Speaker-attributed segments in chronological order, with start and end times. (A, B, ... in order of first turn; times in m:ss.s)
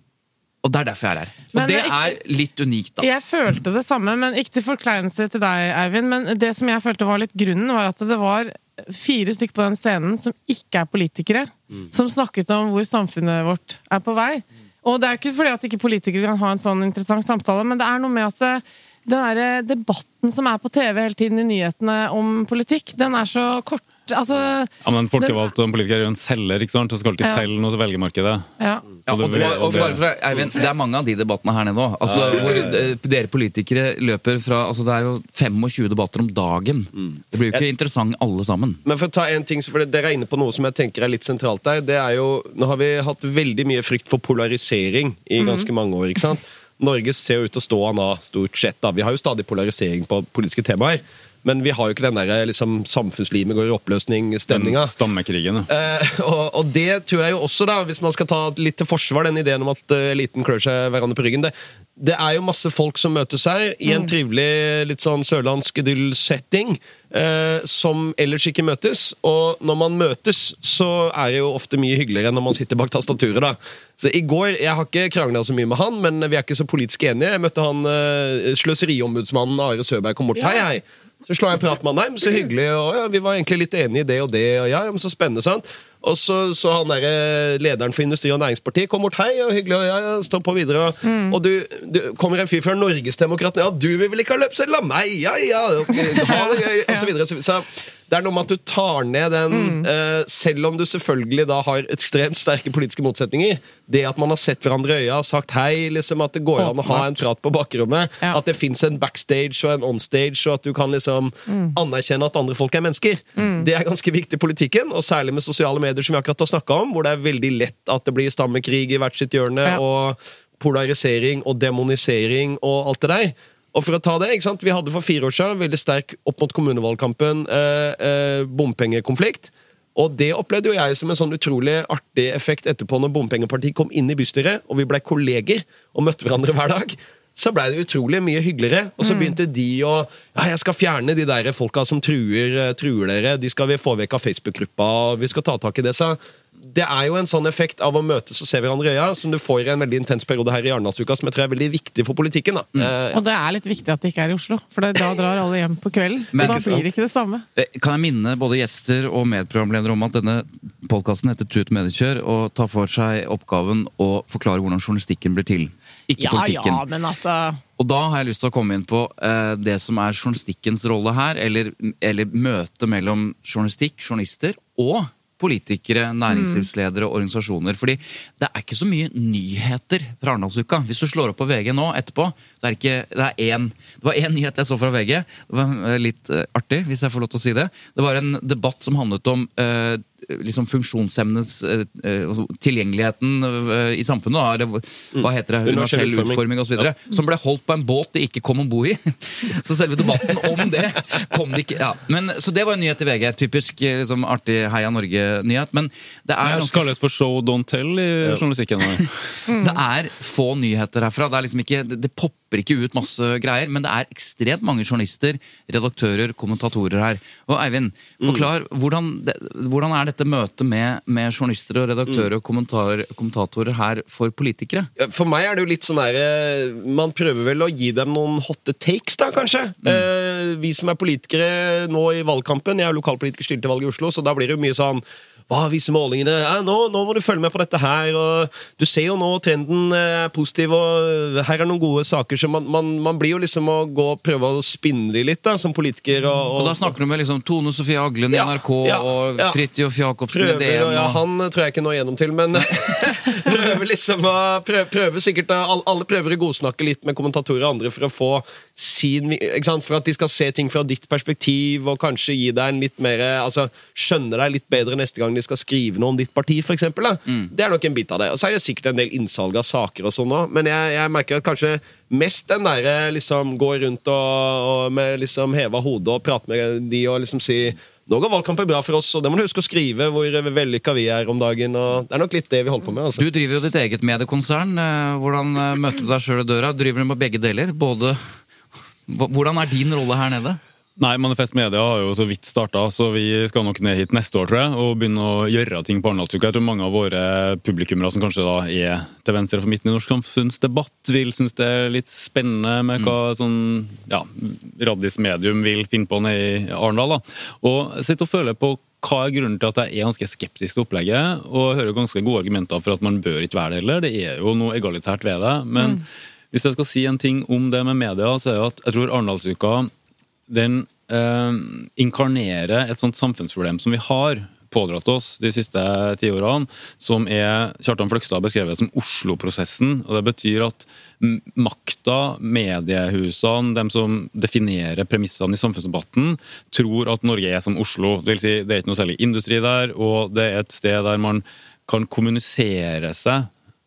0:00.6-0:03.1 A
0:01.5-0:02.2 B
0:03.0-0:25.4 B
0:24.8-0:28.5 C
0:27.2-0:27.5 B
0:28.6-0:28.8 B
0:29.1-0:38.8 A
0:29.1-0:30.0 C
0:29.4-0:30.0 D
0:32.0-0:32.7 D
0:38.8-0:54.9 D
0:45.4-0:45.7 B
0:54.5-0:55.7 C
0:55.7-2:26.2 D
1:03.9-1:04.1 B
1:20.4-1:20.6 B
1:31.0-1:31.4 B
1:36.0-1:37.1 B
1:39.5-1:39.9 B
1:51.5-1:51.8 B
1:53.4-1:53.6 B
2:19.0-2:19.4 B
2:26.7-2:33.2 D
2:33.1-2:37.4 B
2:36.3-2:36.8 A
2:36.4-2:36.8 D
2:37.6-2:46.8 A
2:46.2-2:47.6 B
2:47.8-3:26.9 A
2:56.3-2:56.6 B
3:15.1-3:16.4 D
3:26.4-3:29.4 C
3:29.5-3:29.8 B
3:29.5-3:44.9 A
3:45.0-4:06.9 D
4:06.5-4:11.2 A
4:08.3-4:09.6 D
4:10.3-4:43.2 D
4:43.1-4:48.3 A
4:49.1-4:50.6 A
4:51.0-5:19.9 C
5:20.5-5:43.5 C